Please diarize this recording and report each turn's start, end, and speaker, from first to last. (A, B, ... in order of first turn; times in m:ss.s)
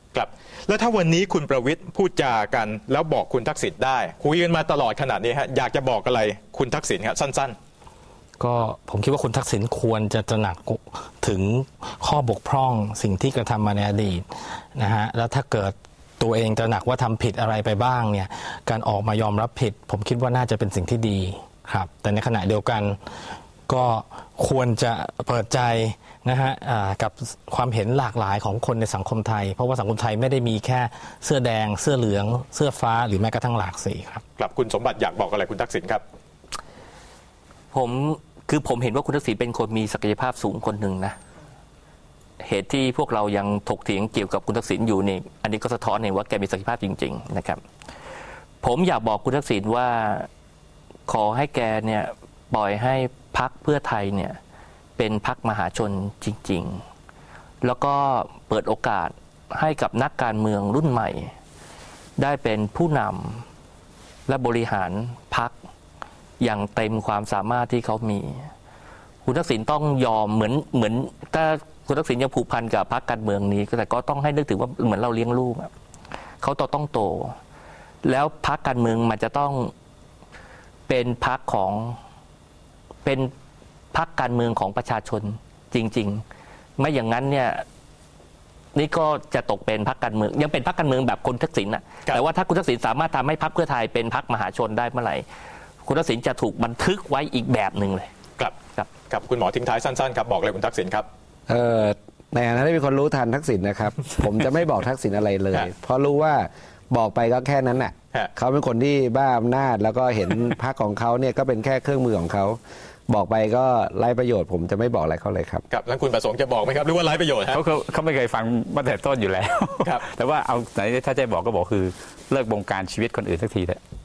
0:00.1-0:07.5 A
0:08.4-0:23.0 B
0:23.7-0:34.2 B
0:34.4-0:36.0 A
0:37.7-0:41.2 C
0:42.4-0:47.6 C
0:48.6-0:50.3 C
0:51.1-0:54.4 C
0:55.0-0:56.8 C
0:57.6-1:01.3 C
1:02.2-1:03.4 C
1:04.3-1:05.5 C
1:06.4-1:08.5 C
1:09.2-1:15.7 C
1:16.4-1:17.4 C
1:18.0-1:19.7 C
1:20.9-1:22.0 C
1:23.0-1:23.3 C
1:23.9-1:26.2 C
1:26.8-1:27.6 C
1:28.7-1:35.2 C
1:35.8-1:38.1 C
1:38.4-1:41.1 A
1:41.5-1:55.6 D
1:55.7-1:57.6 A
1:57.5-2:03.8 E